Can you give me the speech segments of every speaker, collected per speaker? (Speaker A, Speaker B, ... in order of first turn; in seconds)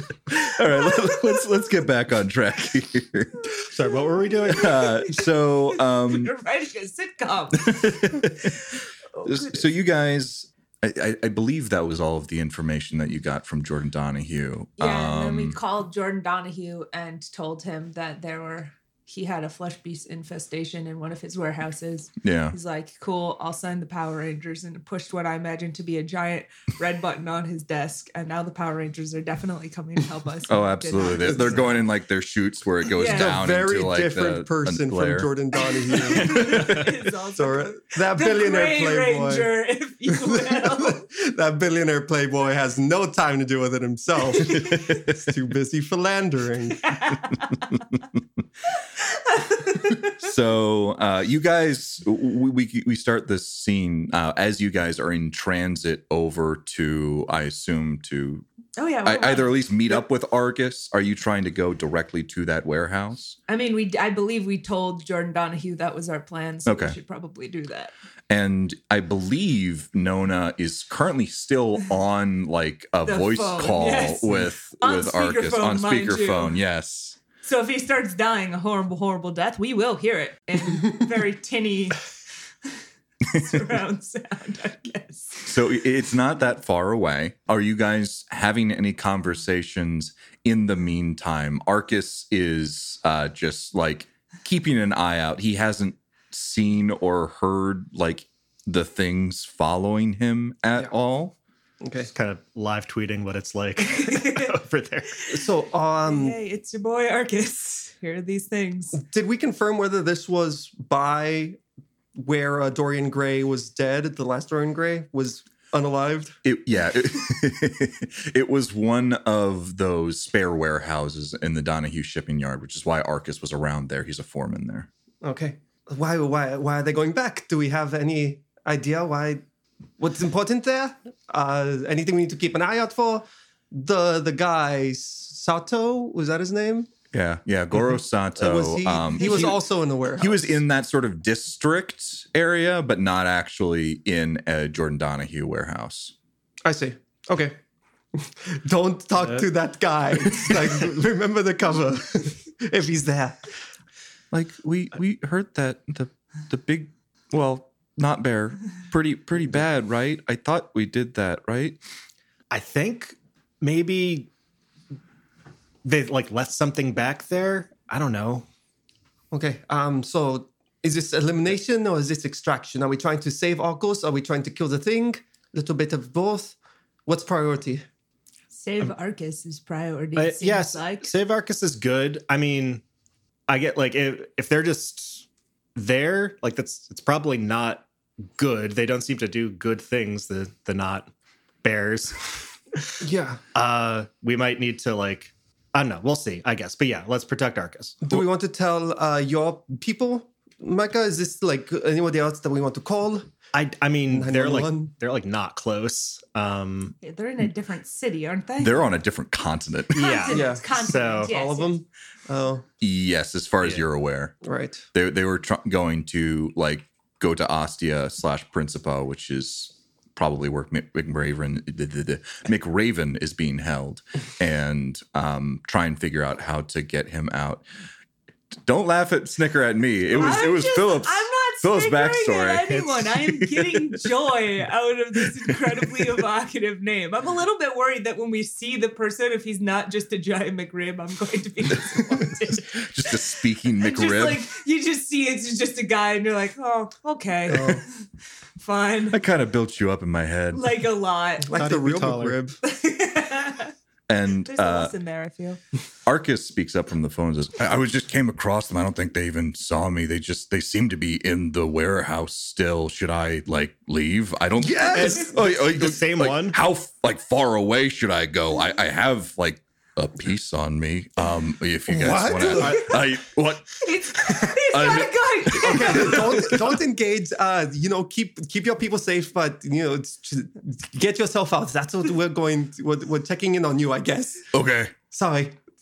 Speaker A: 0.3-3.5, 4.5-6.3, 7.6-8.6, 9.2-15.6, 22.2-22.5, 30.5-35.3, 50.1-58.4, 59.0-63.4, 66.7-67.0, 68.3-77.2, 85.4-101.3, 116.4-124.9, 137.1-139.6, 140.2-146.1, 154.3-161.8, 208.6-210.2, 212.8-214.4, 214.9-227.6, 228.6-233.1, 242.7-244.5, 249.1-250.6, 254.1-254.9, 256.1-276.7, 284.5-284.9
Speaker B: 3.6-4.9, 102.1-105.2, 162.5-164.3, 165.8-168.4, 180.2-182.8, 183.5-191.1, 191.6-192.9, 193.5-198.2, 203.5-206.9, 209.9-211.3, 251.5-252.4, 264.9-266.6
Speaker C: 4.5-9.5, 14.8-31.6, 32.9-33.4, 35.9-41.0, 46.7-47.8, 49.0-50.2, 58.8-59.6, 63.5-67.9, 73.0-76.5, 77.4-82.1, 83.2-85.5, 103.8-104.5, 105.2-105.5, 106.0-109.0, 139.2-139.6, 178.5-181.1, 207.0-208.9, 209.9-211.7, 230.2-243.1, 243.8-247.9, 248.6-249.2, 250.5-251.5, 252.6-253.7, 254.4-255.6, 273.8-276.3
Speaker D: 33.0-39.5, 40.1-46.8, 101.8-102.1, 105.3-106.4, 108.9-111.6, 112.1-116.4, 125.2-129.4, 130.0-136.9, 138.3-140.6, 146.6-147.6, 148.1-153.5, 169.3-177.8, 193.0-193.4, 198.0-203.3, 204.1-204.9, 210.3-212.7, 214.4-214.8, 247.5-247.8, 251.4-252.6, 264.6-265.3, 271.9-273.0, 275.6-284.4, 285.1-285.6